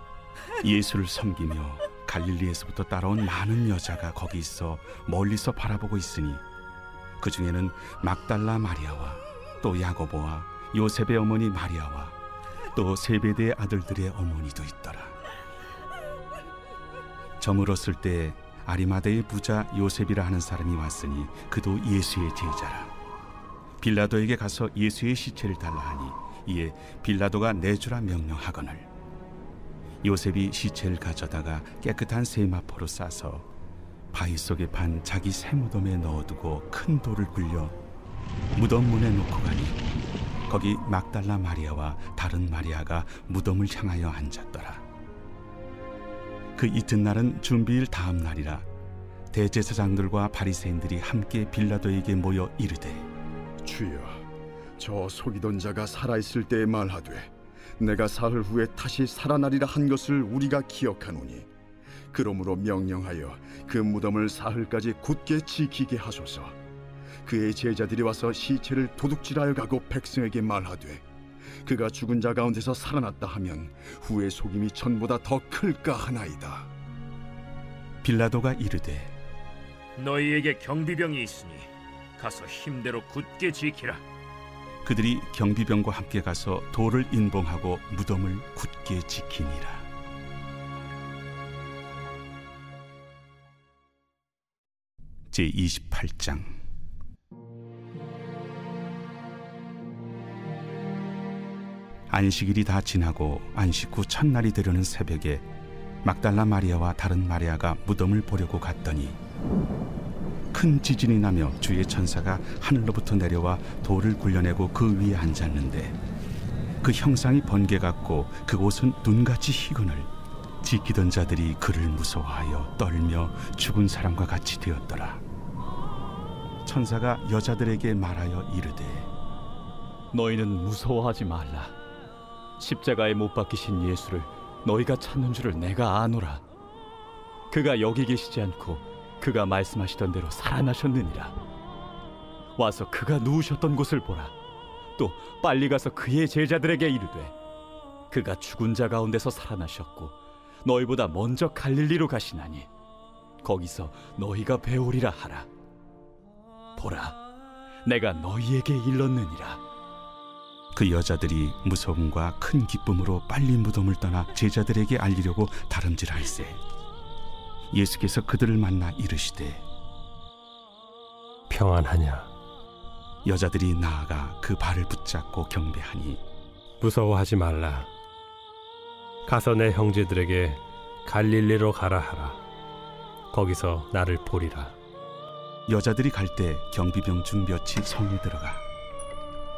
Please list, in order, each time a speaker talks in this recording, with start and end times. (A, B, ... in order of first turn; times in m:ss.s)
0:00.6-0:06.4 A
0:07.2-0:12.2 A
0:12.8-0:15.2 A
0:17.4-0:22.9 A
0:23.8-0:28.9 A
0:30.0-0:33.5 A
0:34.1-0:37.8 A
0:38.6-0:39.8 A
0:40.5-0:44.8 A
0:46.6-0:48.7 A
0:49.3-0:53.1 A
0:53.6-0:54.2 B
0:54.8-1:01.5 B
1:02.1-1:06.6 B
1:07.2-1:11.0 B
1:11.6-1:16.7 B
1:18.0-1:19.2 A
1:20.0-1:21.7 C
1:22.2-1:24.0 C
1:24.8-1:29.9 A
1:35.3-1:36.5 A
1:42.1-1:45.4 A
1:46.0-1:49.2 A
1:50.5-1:56.0 A
1:56.8-2:00.1 A
2:00.6-2:05.2 A
2:06.6-2:09.1 A
2:10.1-2:11.7 D
2:12.6-2:16.4 D
2:17.5-2:21.4 D
2:22.6-2:24.3 D
2:25.0-2:27.4 D
2:28.1-2:32.7 D
2:33.4-2:35.5 D
2:36.8-2:37.2 D
2:37.8-2:39.6 D
2:40.8-2:46.6 A
2:47.7-2:49.7 A
2:51.5-2:52.3 E
2:53.2-2:56.2 A
2:56.8-2:57.9 E
2:59.3-3:02.4 E
3:03.3-3:04.7 E
3:05.7-3:08.6 A